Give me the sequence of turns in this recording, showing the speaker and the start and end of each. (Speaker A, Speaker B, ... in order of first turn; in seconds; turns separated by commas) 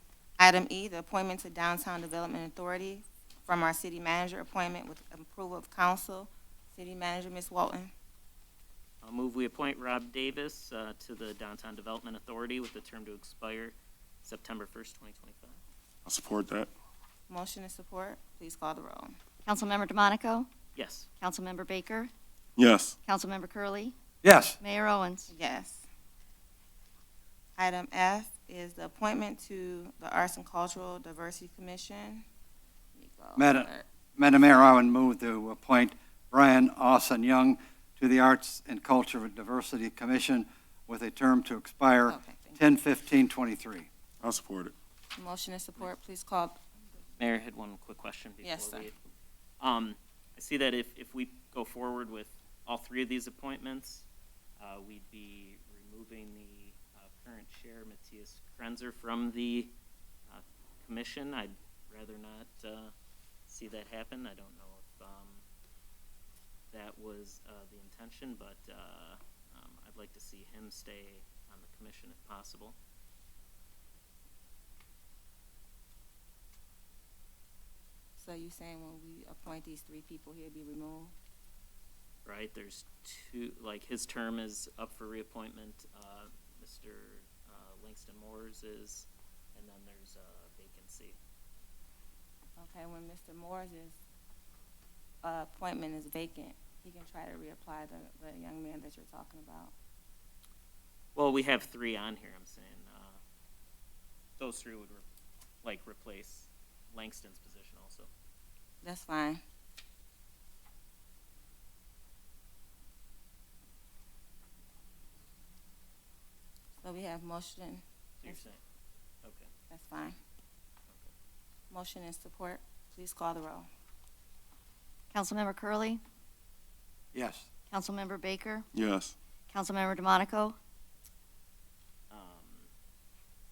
Speaker A: 0.4-7.9, Speaker B: 9.0-15.6, Speaker C: 16.1-16.7, Speaker A: 17.3-19.1, Speaker D: 19.4-20.5, Speaker B: 20.8-21.1, Speaker D: 21.2-22.1, Speaker C: 22.6-23.0, Speaker D: 23.0-23.9, Speaker E: 24.2-24.6, Speaker D: 24.6-25.3, Speaker A: 25.3-25.9, Speaker A: 27.6-32.2, Speaker A: 33.0-33.8, Speaker E: 33.4-43.9, Speaker A: 42.1-42.6, Speaker C: 44.2-44.7, Speaker A: 45.1-46.6, Speaker B: 47.2-49.0, Speaker A: 48.4-48.9, Speaker B: 49.6-54.1, Speaker B: 54.6-59.7, Speaker B: 60.3-62.9, Speaker B: 63.5-65.4, Speaker B: 66.7-72.8, Speaker A: 78.2-81.1, Speaker B: 82.2-91.2, Speaker A: 92.6-94.0, Speaker A: 95.2-99.7, Speaker B: 101.2-103.2, Speaker B: 104.4-105.0, Speaker B: 105.6-108.1, Speaker A: 108.8-109.4, Speaker A: 116.8-118.4, Speaker B: 118.2-118.6, Speaker B: 119.2-119.5, Speaker A: 119.7-120.2, Speaker A: 121.7-123.7, Speaker D: 125.1-126.0, Speaker E: 127.1-127.5, Speaker D: 127.7-128.7, Speaker C: 128.7-129.2, Speaker D: 129.5-130.6, Speaker B: 132.1-132.7